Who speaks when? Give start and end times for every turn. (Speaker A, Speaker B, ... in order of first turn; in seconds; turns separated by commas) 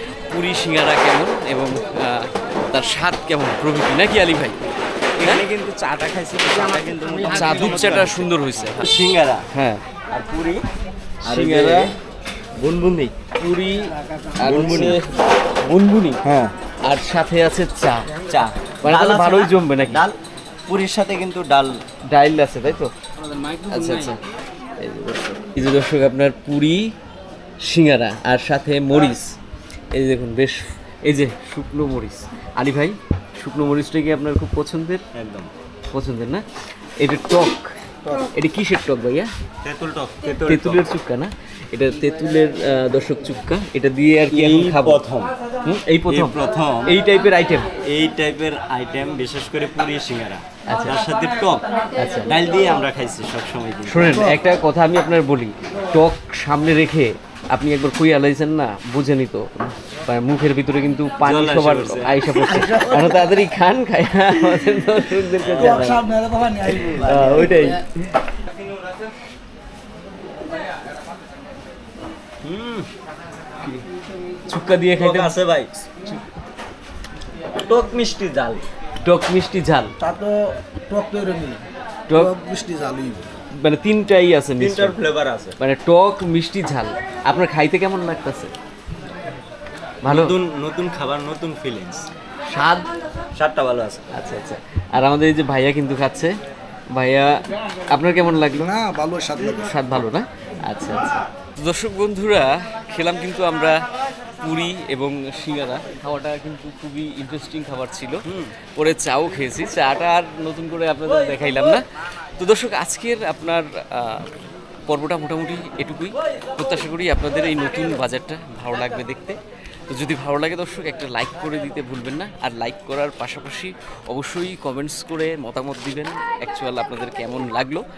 Speaker A: 0.3-4.6, Speaker B: 5.2-9.4, Speaker A: 7.2-8.8, Speaker A: 9.5-9.8, Speaker B: 10.1-10.6, Speaker A: 11.2-11.9, Speaker B: 11.2-11.9, Speaker B: 12.6-13.1, Speaker A: 13.4-16.2, Speaker B: 14.4-15.0, Speaker B: 16.2-16.5, Speaker A: 16.8-18.1, Speaker B: 18.2-20.1, Speaker A: 18.8-20.0, Speaker B: 20.7-21.7, Speaker A: 22.1-22.9, Speaker A: 23.7-24.2, Speaker A: 24.8-26.9, Speaker A: 27.6-29.3, Speaker A: 29.9-35.0, Speaker B: 35.1-35.5, Speaker A: 35.9-36.4, Speaker A: 37.0-37.7, Speaker A: 38.3-39.3, Speaker B: 39.6-40.8, Speaker A: 40.5-45.0, Speaker B: 44.3-45.3, Speaker A: 45.6-47.7, Speaker B: 46.1-46.9, Speaker B: 47.9-51.6, Speaker A: 50.7-51.0, Speaker A: 52.0-52.3, Speaker B: 52.2-54.3, Speaker A: 53.9-59.5, Speaker A: 60.0-66.1, Speaker B: 61.2-63.1, Speaker B: 65.3-67.8, Speaker C: 66.0-66.8, Speaker A: 66.7-67.9, Speaker B: 72.4-72.9, Speaker A: 74.5-75.3, Speaker B: 75.0-75.8, Speaker B: 77.6-78.7, Speaker A: 79.0-79.9, Speaker C: 80.0-81.6, Speaker A: 82.1-82.3, Speaker C: 82.1-83.3, Speaker A: 83.6-85.0, Speaker B: 84.6-85.5, Speaker A: 85.6-88.5, Speaker A: 90.0-90.3, Speaker B: 90.0-92.0, Speaker A: 92.5-92.9, Speaker B: 93.3-94.0, Speaker A: 94.1-96.3, Speaker A: 96.9-97.3, Speaker A: 97.9-98.7, Speaker C: 98.6-99.7, Speaker A: 99.6-103.8, Speaker A: 104.4-111.8, Speaker A: 112.4-114.3, Speaker A: 114.9-127.8